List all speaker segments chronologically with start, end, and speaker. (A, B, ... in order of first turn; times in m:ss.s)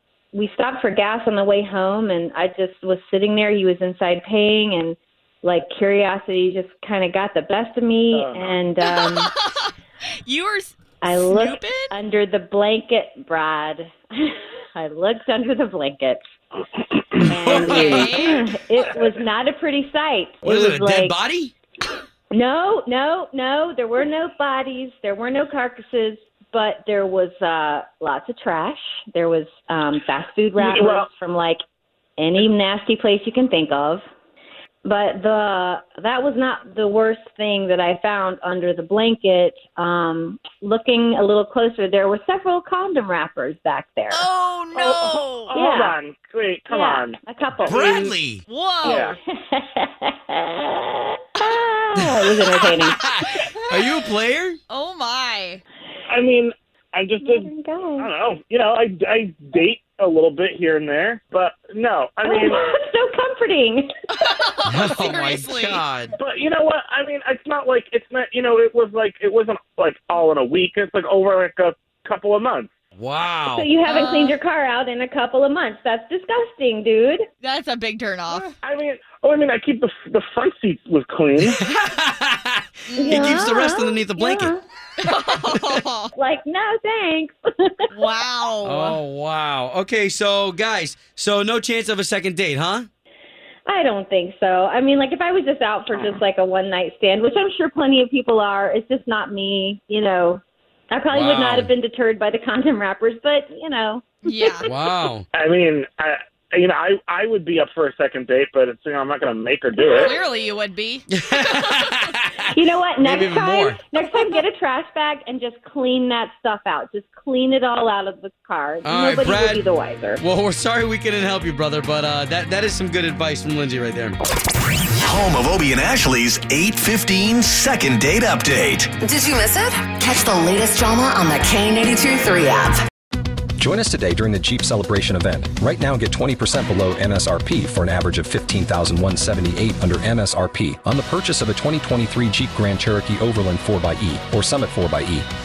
0:00.3-0:09.3 A
0:08.1-0:08.6 B
0:09.0-0:09.7 C
0:10.3-0:11.9 C
0:11.0-0:16.2 A
0:17.3-0:21.2 A
0:17.5-0:17.8 D
0:17.5-0:18.5 C
0:17.8-0:18.2 B
0:20.4-0:21.5 D
0:22.3-0:31.6 A
0:30.6-0:31.1 B
0:32.2-0:34.0 A
0:34.8-0:44.3 A
0:44.1-0:45.5 C
0:44.8-0:47.9 B
0:45.5-0:46.0 A
0:46.7-0:48.1 A
0:47.7-0:48.4 D
0:48.5-0:49.2 C
0:48.8-0:49.2 B
0:48.8-0:53.0 A
0:52.0-0:54.6 D
0:53.3-0:53.8 C
0:54.7-0:55.6 C
0:56.1-1:02.6 B
0:57.2-0:58.1 A
1:02.2-1:03.9 A
1:04.2-1:05.9 C
1:04.7-1:06.1 D
1:06.2-1:12.7 B
1:13.0-1:13.7 D
1:13.5-1:17.3 A
1:13.9-1:14.4 C
1:17.4-1:18.5 C
1:18.6-1:21.6 B
1:21.4-1:24.6 D
1:22.9-1:23.3 C
1:23.0-1:24.6 A
1:25.0-1:26.1 C
1:25.5-1:25.8 D
1:26.2-1:27.9 A
1:27.9-1:29.0 C
1:28.6-1:32.9 D
1:33.7-1:44.6 A
1:41.1-1:41.7 D
1:44.2-1:44.7 C
1:44.6-1:45.2 D
1:45.3-1:50.2 B
1:49.9-1:52.0 C
1:51.1-1:53.8 D
1:52.5-2:00.2 A
1:58.8-1:59.7 D
2:00.2-2:04.2 D
2:05.0-2:08.9 E
2:09.0-2:12.8 F
2:13.6-2:25.3 G